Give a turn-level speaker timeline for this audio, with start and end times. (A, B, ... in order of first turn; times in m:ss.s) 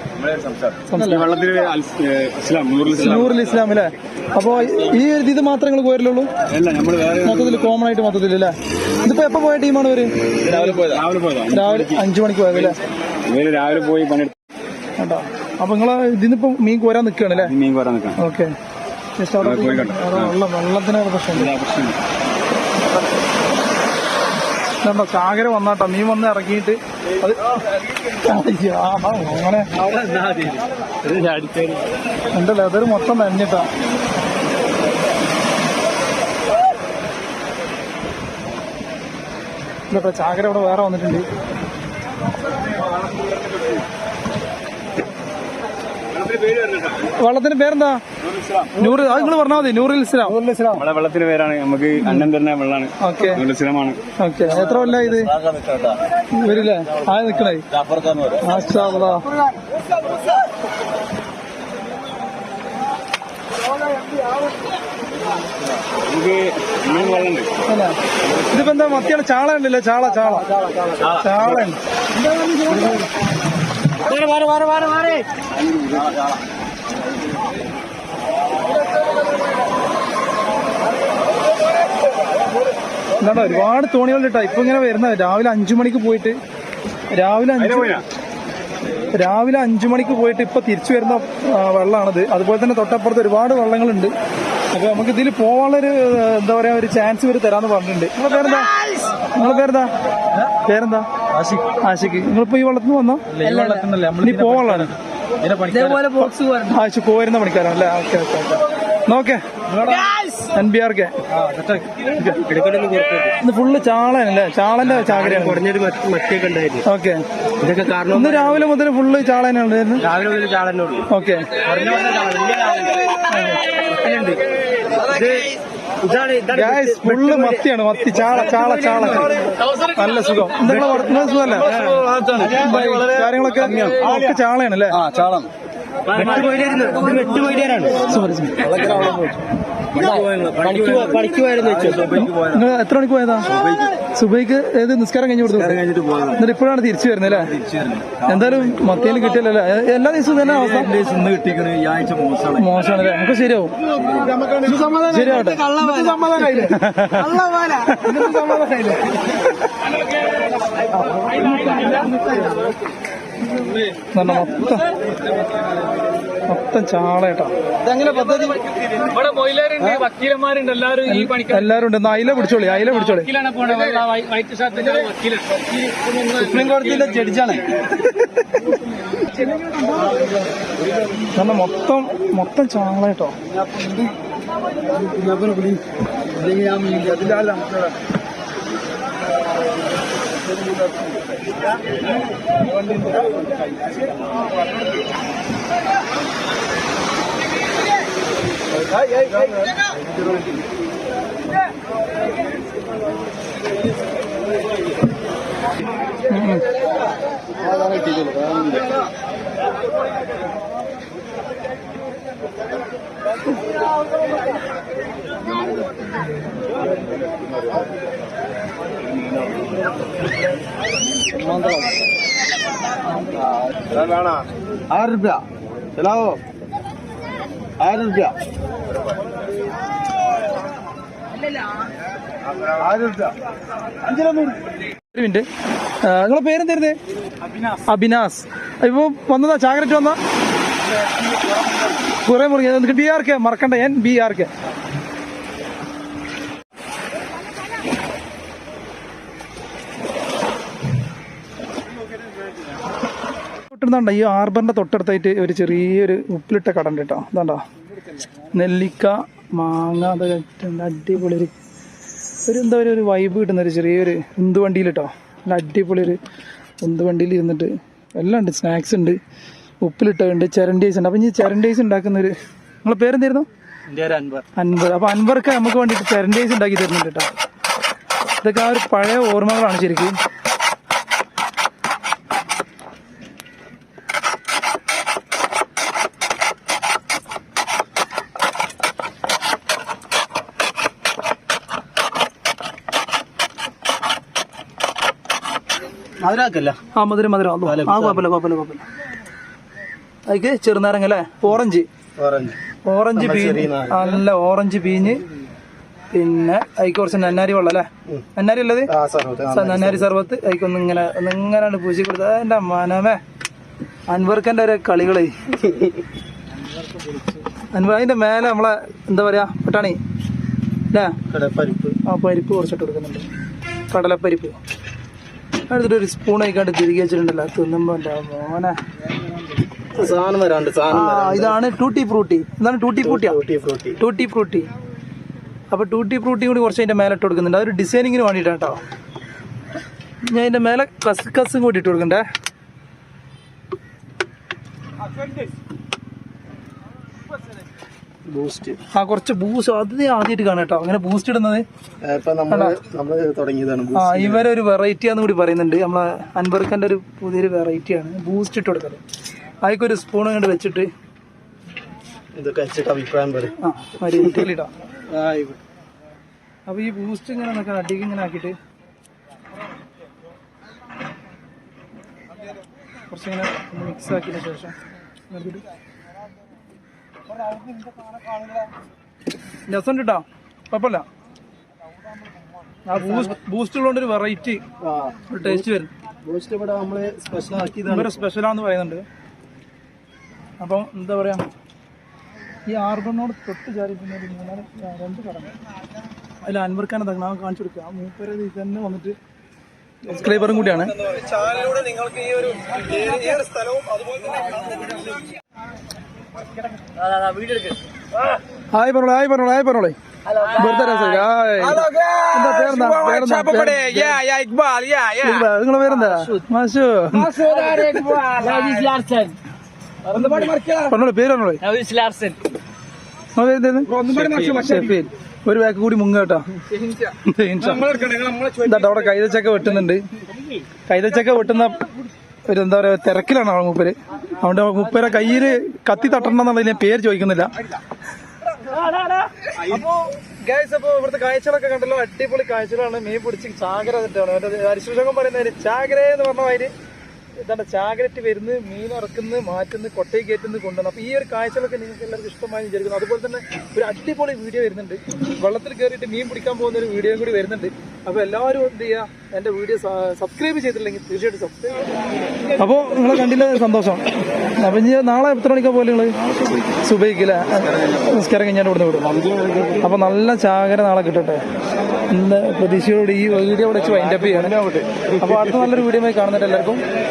0:00.1-0:03.5 A
0:00.9-0:01.3 B
0:03.0-0:06.3 B
0:06.5-0:07.7 A
0:07.2-0:10.1 B
0:10.4-0:12.0 A
0:11.5-0:12.8 B
0:13.2-0:14.3 A
0:15.0-0:17.5 B
0:17.4-0:18.2 A
0:18.2-0:18.6 B
0:19.2-0:21.5 B
0:19.4-0:20.3 A
0:21.3-0:22.0 A
0:24.8-0:27.4 B
0:28.1-0:29.7 B
0:30.0-0:31.8 A
0:32.3-0:33.7 B
0:39.9-0:41.3 B
0:46.5-0:46.9 A
0:47.1-0:48.0 B
0:48.7-0:50.4 B
0:50.7-0:54.0 A
0:53.0-0:53.4 B
0:54.2-0:55.3 B
0:55.6-0:55.9 A
0:56.3-0:57.6 B
0:57.9-0:58.3 A
0:58.4-0:59.3 B
1:06.1-1:07.5 A
1:07.6-1:10.5 B
1:11.1-1:11.8 B
1:14.1-1:15.2 C
1:23.2-1:26.4 B
1:27.1-1:28.0 B
1:27.7-1:28.0 A
1:29.1-1:34.1 B
1:34.7-1:39.9 B
1:40.6-1:41.1 B
1:41.8-1:43.3 B
1:43.3-1:44.8 C
1:43.4-1:43.9 D
1:44.2-1:44.9 B
1:45.4-1:46.6 C
1:45.5-1:46.0 D
1:46.1-1:49.4 B
1:49.7-1:50.0 D
1:50.4-1:51.2 B
1:51.4-1:51.8 D
1:52.4-1:53.3 D
1:53.4-1:55.6 B
1:55.0-1:56.8 D
1:56.8-1:57.2 B
1:57.6-1:58.6 D
1:58.1-2:00.1 B
2:00.0-2:01.0 D
2:01.1-2:01.6 B
2:01.6-2:03.0 D
2:03.2-2:03.6 B
2:04.0-2:04.4 D
2:05.0-2:07.5 D
2:06.5-2:09.3 B
2:09.8-2:11.8 B
2:11.8-2:12.4 D
2:11.8-2:13.0 C
2:12.4-2:15.0 B
2:15.0-2:15.5 C
2:16.1-2:18.0 D
2:16.1-2:17.9 C
2:18.1-2:18.7 B
2:18.7-2:19.3 C
2:18.8-2:19.1 A
2:20.0-2:21.1 A
2:20.0-2:22.5 C
2:20.6-2:22.1 D
2:22.2-2:23.5 B
2:24.1-2:25.8 B
2:25.9-2:26.3 C
2:26.3-2:27.6 B
2:27.6-2:28.2 C
2:28.2-2:31.0 B
2:30.6-2:32.6 C
2:32.5-2:33.8 B
2:34.5-2:36.5 D
2:35.0-2:35.7 B
2:35.7-2:36.5 C
2:36.5-2:37.4 B
2:37.4-2:39.0 D
2:38.0-2:38.2 B
2:44.1-2:44.9 B
2:46.5-2:47.5 B
2:47.9-2:48.5 D
2:48.1-2:48.4 C
2:49.0-2:51.0 C
2:51.0-2:53.4 B
2:53.4-2:55.4 C
2:56.1-2:57.5 C
2:56.3-2:57.6 D
3:01.3-3:03.4 B
3:05.2-3:05.6 C
3:06.6-3:07.6 C
3:26.3-3:26.7 B
3:43.8-3:45.4 D
3:46.0-3:46.4 D
3:47.8-3:48.3 D
3:52.9-3:53.2 D
3:55.1-3:55.4 B
3:56.0-3:57.0 B
3:57.7-4:00.2 B
4:02.2-4:04.5 B
4:13.7-4:17.6 B
4:18.4-4:21.5 B
4:22.4-4:26.2 B
4:26.8-4:29.2 B
4:29.8-4:33.4 B
4:33.9-4:34.4 D
4:34.5-4:37.3 B
4:38.4-4:40.2 B
4:56.2-4:56.8 D
4:56.9-4:58.8 B
4:57.6-4:58.2 D
5:00.2-5:01.9 B
5:02.2-5:02.6 D
5:02.8-5:05.2 B
5:03.1-5:04.2 D
5:06.1-5:08.9 B
5:08.9-5:10.1 D
5:09.5-5:13.2 B
5:14.1-5:15.6 B
5:17.7-5:20.0 B
5:20.9-5:21.2 B
5:21.3-5:22.0 D
5:22.0-5:23.3 B
5:23.9-5:24.6 B
5:25.7-5:28.8 B
5:29.9-5:31.6 D
5:30.9-5:33.4 B
5:33.0-5:34.0 D
5:34.0-5:34.7 B
5:35.7-5:38.8 B
5:40.2-5:42.2 B
5:48.3-5:48.8 D
5:48.9-5:51.6 B
5:52.0-5:54.4 D
5:52.5-5:52.8 B
5:53.9-5:59.0 B
5:59.6-6:00.9 B
6:02.3-6:03.5 D
6:03.6-6:04.7 B
6:05.1-6:05.6 D
6:06.6-6:08.6 B
6:13.1-6:14.8 B
6:15.3-6:15.6 B
6:19.7-6:21.1 B
6:22.8-6:24.6 B
6:24.8-6:25.6 D
6:25.3-6:25.9 B
6:26.2-6:28.2 D
6:27.8-6:29.0 B
6:30.6-6:31.5 B
6:32.7-6:35.6 B
6:36.4-6:39.2 B
6:40.0-6:41.1 B
6:43.1-6:43.7 B
6:47.3-6:47.7 C
6:48.7-6:54.2 B
6:54.3-6:55.1 C
6:55.1-6:57.5 B
6:57.5-6:59.3 C
7:00.1-7:00.8 C
7:00.8-7:01.6 B
7:01.7-7:02.4 C
7:03.3-7:10.0 B
7:10.8-7:11.9 B
7:12.4-7:17.5 B
7:18.7-7:26.7 B
7:27.4-7:41.8 B
7:42.6-7:46.2 B
7:46.8-7:49.1 B
7:49.8-7:51.4 B
7:52.1-7:56.8 B